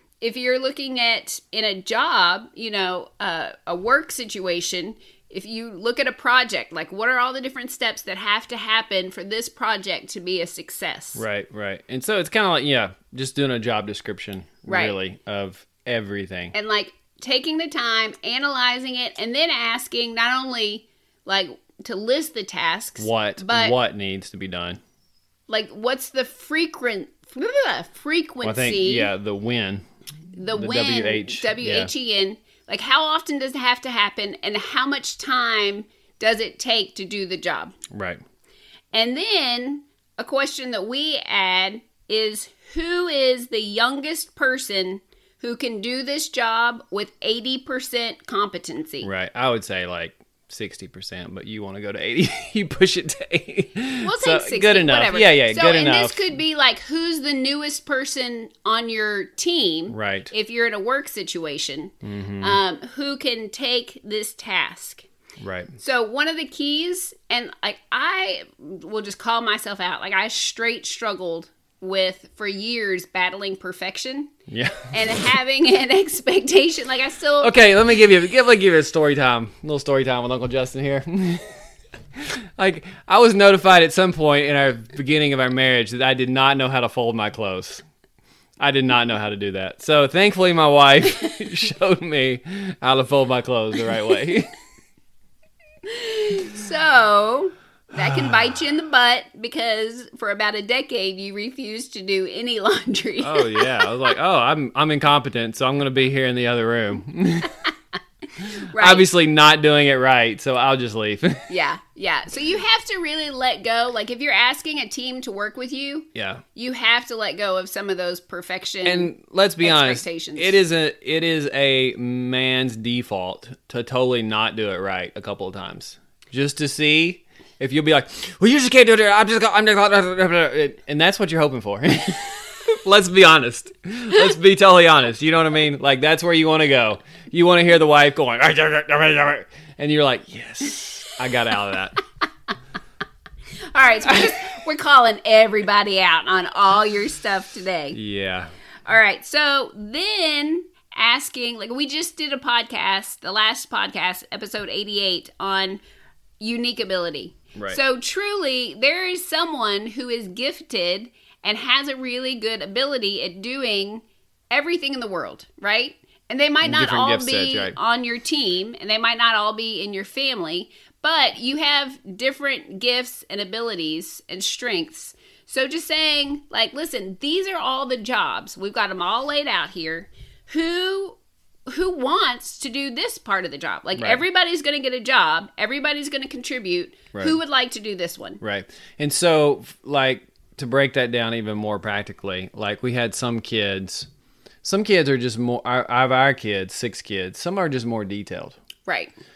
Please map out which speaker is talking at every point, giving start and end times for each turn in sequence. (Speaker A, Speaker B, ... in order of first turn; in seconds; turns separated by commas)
Speaker A: 0.2-11.2, Speaker B: 11.2-16.6, Speaker A: 14.7-15.0, Speaker A: 16.5-23.8, Speaker B: 23.0-24.8, Speaker A: 25.5-29.1, Speaker B: 28.4-29.8, Speaker A: 30.3-37.8, Speaker B: 30.5-31.9, Speaker B: 37.9-38.2, Speaker A: 38.9-49.1, Speaker B: 49.0-56.4, Speaker A: 54.0-65.1, Speaker B: 59.9-60.3, Speaker B: 62.0-62.6, Speaker B: 65.4-65.7, Speaker A: 65.8-74.3, Speaker B: 74.5-74.9, Speaker A: 74.9-77.5, Speaker B: 77.4-81.5, Speaker B: 82.2-87.8, Speaker B: 88.6-94.5, Speaker A: 95.8-103.9, Speaker B: 98.0-98.6, Speaker B: 103.2-107.6, Speaker A: 108.7-109.1, Speaker B: 108.7-111.5, Speaker A: 111.5-120.6, Speaker B: 116.2-116.4, Speaker B: 118.8-142.0, Speaker A: 143.7-148.0, Speaker B: 147.9-148.5, Speaker A: 148.8-155.8, Speaker A: 156.4-181.2, Speaker B: 157.6-157.8, Speaker B: 166.6-167.8, Speaker A: 181.7-188.4, Speaker B: 183.9-184.2, Speaker B: 188.4-194.1, Speaker B: 194.6-198.6, Speaker A: 198.8-199.1